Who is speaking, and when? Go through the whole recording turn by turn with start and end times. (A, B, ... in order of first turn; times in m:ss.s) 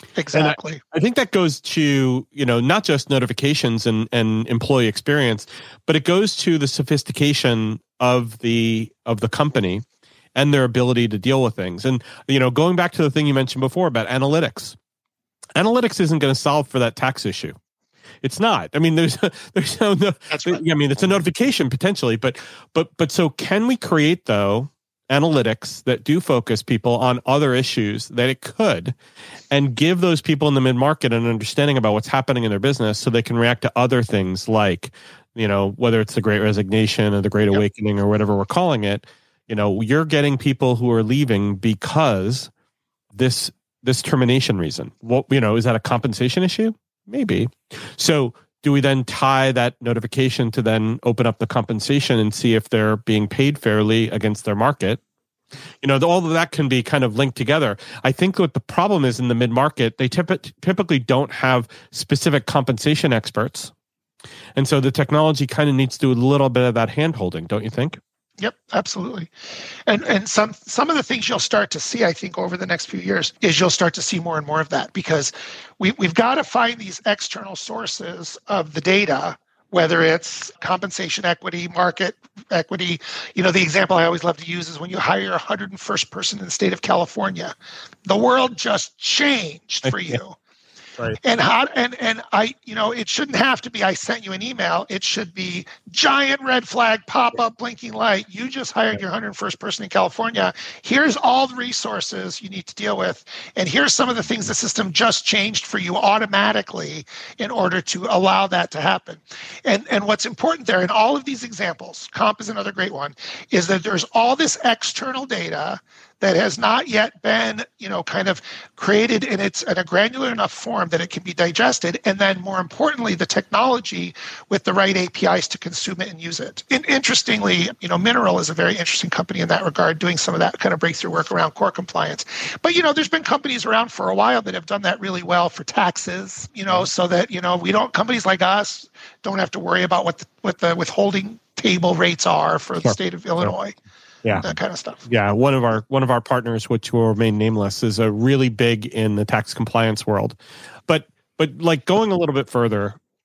0:00.2-0:00.8 A
0:00.3-0:09.8 B
0:10.4-0:14.8 B
0:15.6-0:17.6 B
0:18.2-0:29.0 B
0:20.3-0:20.6 A
0:29.5-0:42.5 B
0:43.1-0:55.0 B
0:55.8-1:03.7 B
1:04.6-1:08.0 B
1:08.4-1:09.3 A
1:09.9-1:27.5 A
1:28.1-1:30.4 A
1:29.9-1:30.2 B
1:31.2-2:23.8 A
2:22.8-2:23.5 B
2:24.2-2:24.5 B
2:24.4-2:25.0 A
2:25.1-2:30.4 B
2:30.9-2:33.0 B